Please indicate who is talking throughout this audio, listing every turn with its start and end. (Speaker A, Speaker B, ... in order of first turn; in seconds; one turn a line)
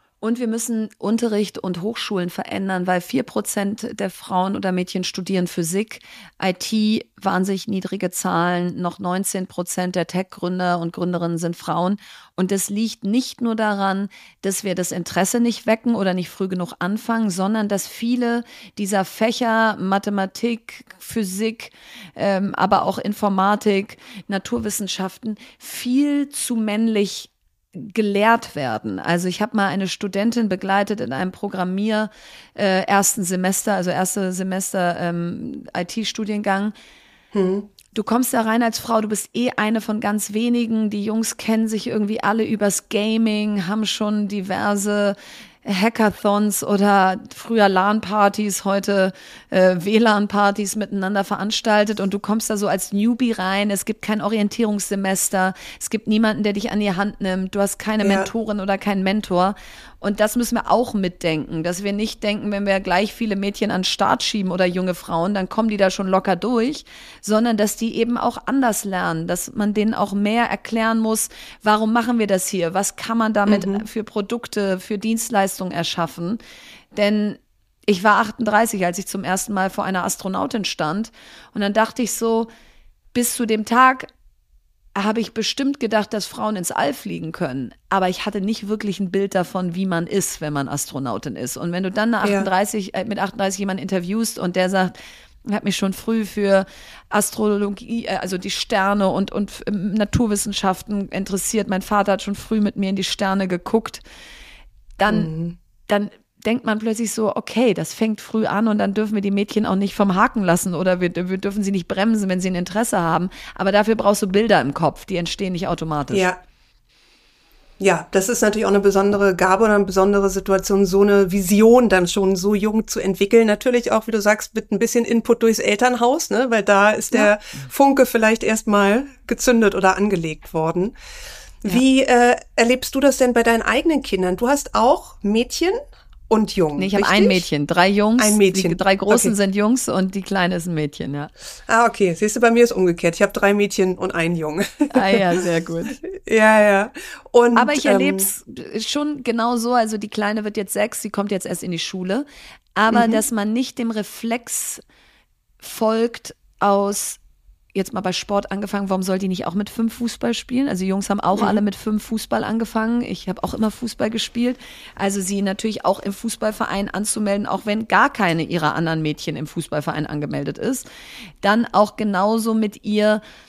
Speaker A: 0.2-36.7
Speaker B: 37.3-37.7
Speaker A: 37.9-76.4
Speaker B: 58.0-58.3
Speaker B: 73.5-73.8
Speaker A: 76.9-82.5
Speaker A: 83.1-84.1
Speaker A: 84.9-94.9
Speaker B: 92.2-92.5
Speaker A: 95.4-104.0
Speaker A: 105.0-105.3
Speaker B: 105.1-105.5
Speaker A: 105.9-116.3
Speaker B: 116.1-116.4
Speaker B: 117.8-130.9
Speaker B: 131.6-137.4
Speaker A: 136.8-141.3
Speaker B: 138.2-139.3
Speaker B: 141.7-145.2
Speaker A: 144.9-146.0
Speaker B: 146.0-148.3
Speaker A: 147.5-154.8
Speaker B: 152.9-153.2
Speaker A: 155.6-157.2
Speaker A: 157.7-170.8
Speaker B: 161.3-161.6
Speaker A: 171.4-173.2